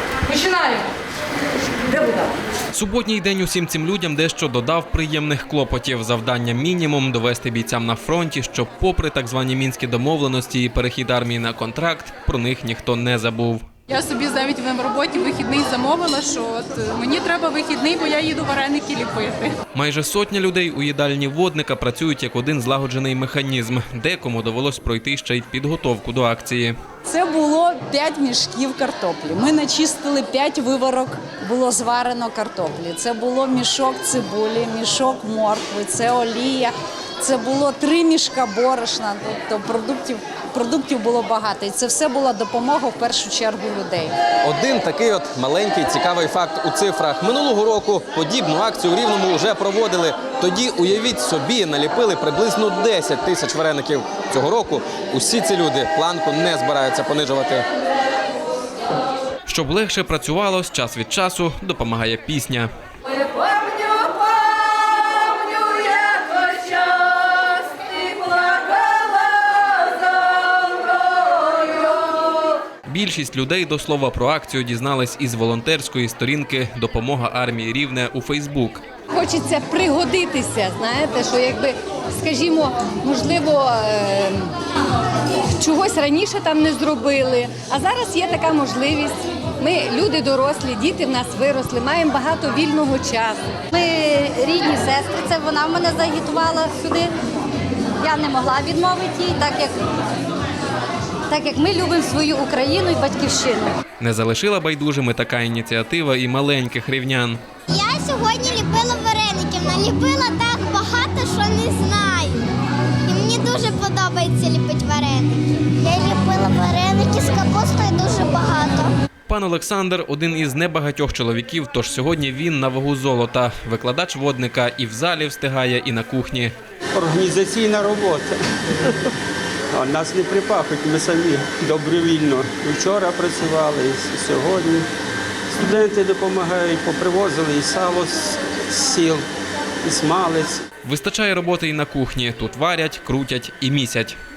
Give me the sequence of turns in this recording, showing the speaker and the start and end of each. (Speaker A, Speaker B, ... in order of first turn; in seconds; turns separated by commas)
Speaker A: 2.7-13.6, Speaker B: 13.9-19.5, Speaker A: 19.7-26.7, Speaker C: 27.1-44.1, Speaker D: 44.4-57.6, Speaker A: 59.5-62.7, Speaker C: 66.2-66.5, Speaker A: 72.8-78.8, Speaker E: 79.1-84.5, Speaker E: 85.4-93.5, Speaker F: 93.7-97.1, Speaker F: 98.0-99.7, Speaker F: 101.3-103.7, Speaker A: 104.0-107.4, Speaker G: 107.7-112.4, Speaker G: 113.0-118.9, Speaker A: 119.3-126.5, Speaker H: 126.9-128.3, Speaker H: 129.7-134.9, Speaker H: 135.5-139.2, Speaker H: 139.8-140.6, Speaker A: 140.8-144.2